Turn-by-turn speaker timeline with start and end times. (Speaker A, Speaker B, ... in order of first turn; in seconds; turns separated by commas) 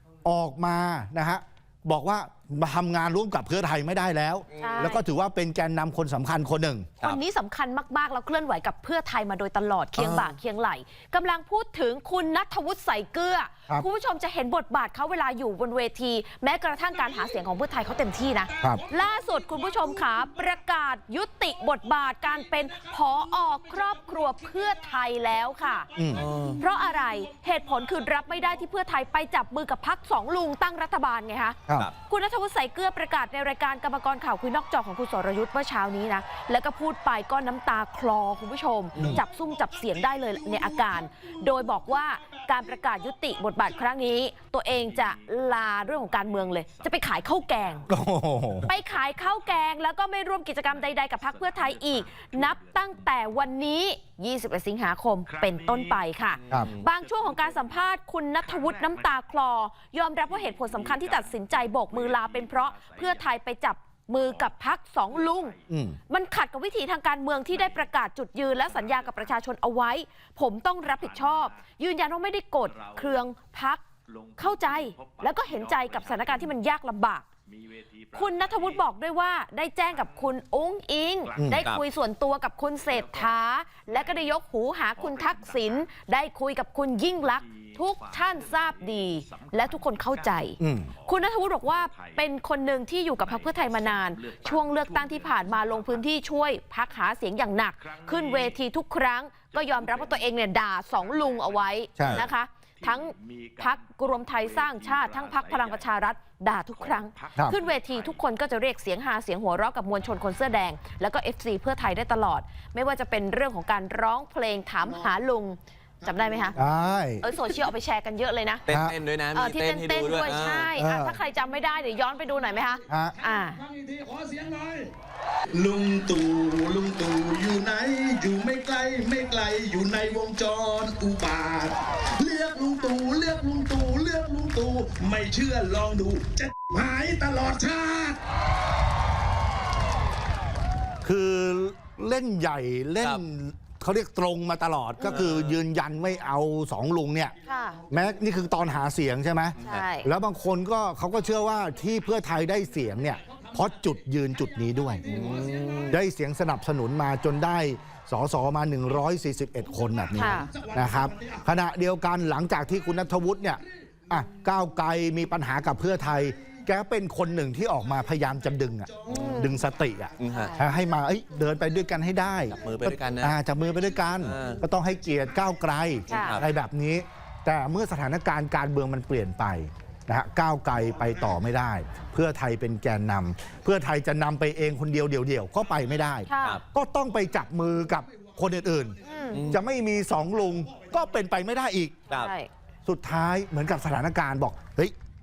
Speaker A: 0.2-6.9, Speaker B: 4.5-4.8, Speaker C: 4.6-5.0, Speaker C: 7.0-25.9, Speaker B: 10.0-10.4, Speaker D: 18.6-18.9, Speaker D: 19.6-19.8, Speaker D: 25.9-27.0, Speaker A: 26.0-26.2, Speaker B: 26.1-26.6, Speaker C: 26.6-47.8, Speaker D: 27.6-28.6, Speaker B: 38.9-39.2, Speaker D: 40.7-41.3, Speaker D: 46.5-46.8, Speaker D: 47.6-48.0, Speaker A: 47.9-48.7, Speaker C: 48.6-65.5, Speaker D: 51.3-52.7, Speaker D: 55.4-55.9, Speaker B: 56.5-56.9, Speaker D: 57.3-57.6, Speaker D: 58.6-59.0, Speaker D: 60.4-63.1, Speaker A: 65.7-66.0, Speaker C: 66.1-73.8, Speaker D: 71.0-71.3, Speaker D: 72.7-73.1, Speaker D: 74.4-76.4, Speaker C: 74.4-77.2, Speaker D: 78.1-78.6, Speaker C: 78.1-116.6, Speaker A: 81.4-81.6, Speaker D: 85.0-85.7, Speaker D: 88.2-88.5, Speaker D: 89.2-89.8, Speaker A: 90.6-90.9, Speaker D: 91.8-92.2, Speaker D: 93.4-95.8, Speaker D: 97.9-98.5, Speaker D: 99.5-100.2, Speaker D: 101.2-101.6, Speaker A: 102.0-102.2, Speaker B: 102.0-102.3, Speaker D: 103.1-103.7, Speaker D: 104.5-105.8, Speaker D: 106.8-108.1, Speaker A: 116.5-117.2, Speaker C: 117.2-118.6, Speaker B: 118.6-120.7, Speaker A: 118.7-118.9, Speaker C: 119.3-123.6, Speaker A: 120.7-121.2, Speaker A: 122.9-123.2, Speaker D: 123.6-124.9, Speaker D: 125.5-138.2, Speaker A: 141.0-147.3, Speaker B: 145.0-145.6, Speaker C: 147.4-147.8, Speaker D: 147.7-148.3, Speaker A: 147.9-155.0, Speaker B: 149.6-149.9, Speaker C: 149.6-150.1, Speaker D: 153.1-156.0, Speaker C: 155.0-155.4, Speaker B: 155.0-156.0, Speaker A: 155.9-191.9, Speaker D: 159.8-161.4, Speaker C: 160.2-160.5, Speaker D: 168.1-170.7, Speaker B: 169.1-169.5, Speaker C: 169.1-169.6, Speaker B: 170.2-170.6, Speaker C: 170.3-170.6, Speaker D: 172.0-172.8, Speaker B: 172.5-173.4, Speaker D: 173.8-174.6, Speaker B: 174.2-174.6, Speaker C: 176.1-176.4, Speaker B: 176.1-176.4, Speaker C: 186.3-186.6, Speaker C: 189.0-189.4, Speaker B: 189.3-189.6, Speaker C: 192.1-192.5, Speaker A: 192.8-194.9